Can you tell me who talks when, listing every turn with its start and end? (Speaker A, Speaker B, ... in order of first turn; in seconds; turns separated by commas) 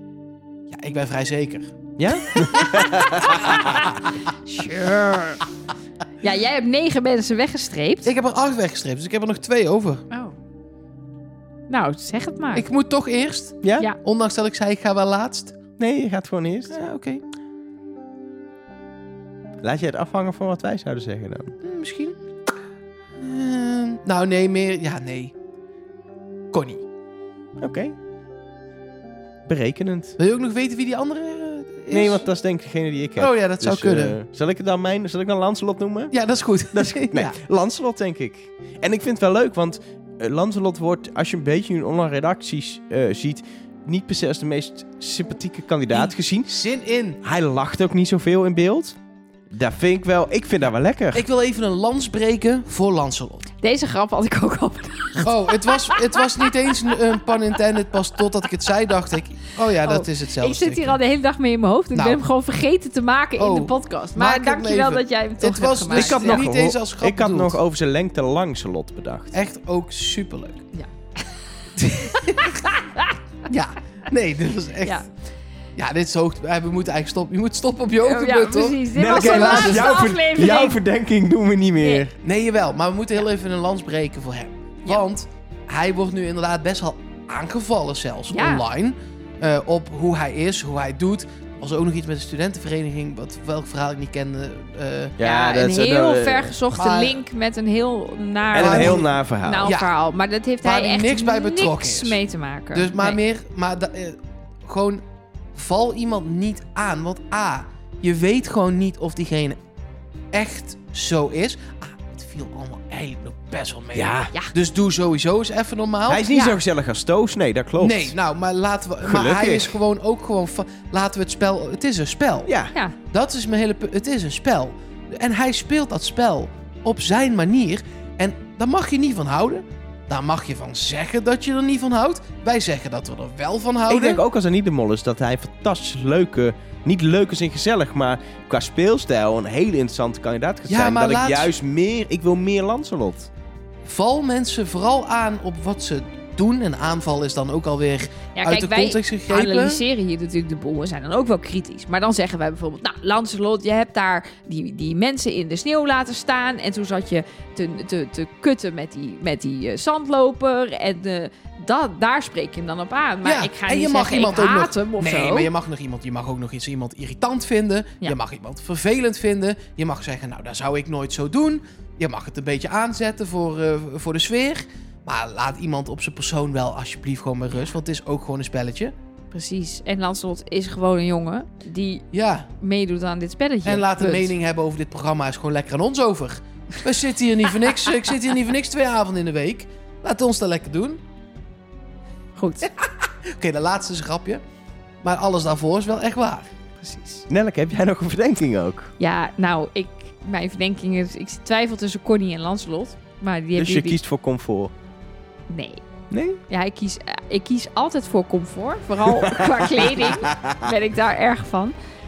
Speaker A: 0.7-1.8, Speaker B: 2.0-3.7, Speaker A: 2.4-3.9, Speaker C: 3.3-5.5, Speaker C: 6.2-8.1, Speaker A: 8.0-10.1, Speaker C: 10.1-10.4, Speaker C: 11.7-12.7, Speaker A: 12.5-15.6, Speaker B: 13.6-13.9, Speaker B: 15.8-16.9, Speaker A: 16.7-17.2, Speaker B: 19.6-21.6, Speaker A: 21.6-22.2, Speaker A: 23.2-25.3, Speaker A: 26.5-26.9, Speaker B: 27.6-27.9, Speaker B: 29.5-30.2, Speaker A: 30.2-32.2, Speaker B: 31.9-36.1, Speaker A: 33.2-34.2, Speaker A: 36.1-37.4, Speaker B: 36.7-46.6, Speaker A: 46.5-47.2, Speaker B: 47.2-49.0, Speaker B: 49.5-51.2, Speaker A: 51.1-53.5, Speaker C: 53.6-57.4, Speaker A: 55.2-61.0, Speaker C: 58.0-58.7, Speaker C: 59.8-66.5, Speaker A: 61.9-62.2, Speaker A: 63.4-67.6, Speaker B: 65.9-69.3, Speaker A: 69.3-70.7, Speaker A: 71.8-72.6, Speaker C: 72.2-73.2, Speaker A: 73.5-75.0, Speaker A: 75.8-80.1, Speaker C: 78.0-80.8, Speaker B: 78.9-82.1, Speaker A: 82.2-95.2, Speaker C: 88.3-88.7, Speaker B: 95.2-96.6, Speaker C: 95.2-103.2, Speaker A: 96.7-97.2, Speaker B: 98.5-99.7, Speaker A: 98.5-99.1, Speaker A: 99.6-99.9, Speaker A: 100.6-102.2, Speaker A: 102.7-109.6, Speaker A: 110.3-116.4, Speaker B: 113.9-114.3, Speaker B: 116.1-118.1, Speaker C: 116.3-116.6, Speaker A: 117.8-122.5, Speaker B: 119.0-119.8, Speaker B: 122.5-122.7, Speaker A: 123.1-134.2, Speaker B: 133.9-143.3, Speaker A: 140.7-141.5, Speaker A: 143.8-149.8, Speaker C: 148.4-165.5, Speaker A: 163.2-178.9, Speaker C: 179.3-182.1, Speaker A: 182.1-182.5, Speaker C: 182.6-184.3, Speaker A: 183.7-191.0, Speaker C: 192.4-192.7, Speaker A: 192.6-194.4, Speaker A: 195.0-196.5, Speaker C: 196.8-197.3, Speaker B: 197.3-198.9, Speaker C: 199.0-204.0, Speaker B: 203.6-204.7, Speaker C: 205.5-205.8, Speaker B: 206.1-206.4, Speaker C: 206.5-211.8, Speaker B: 210.2-210.6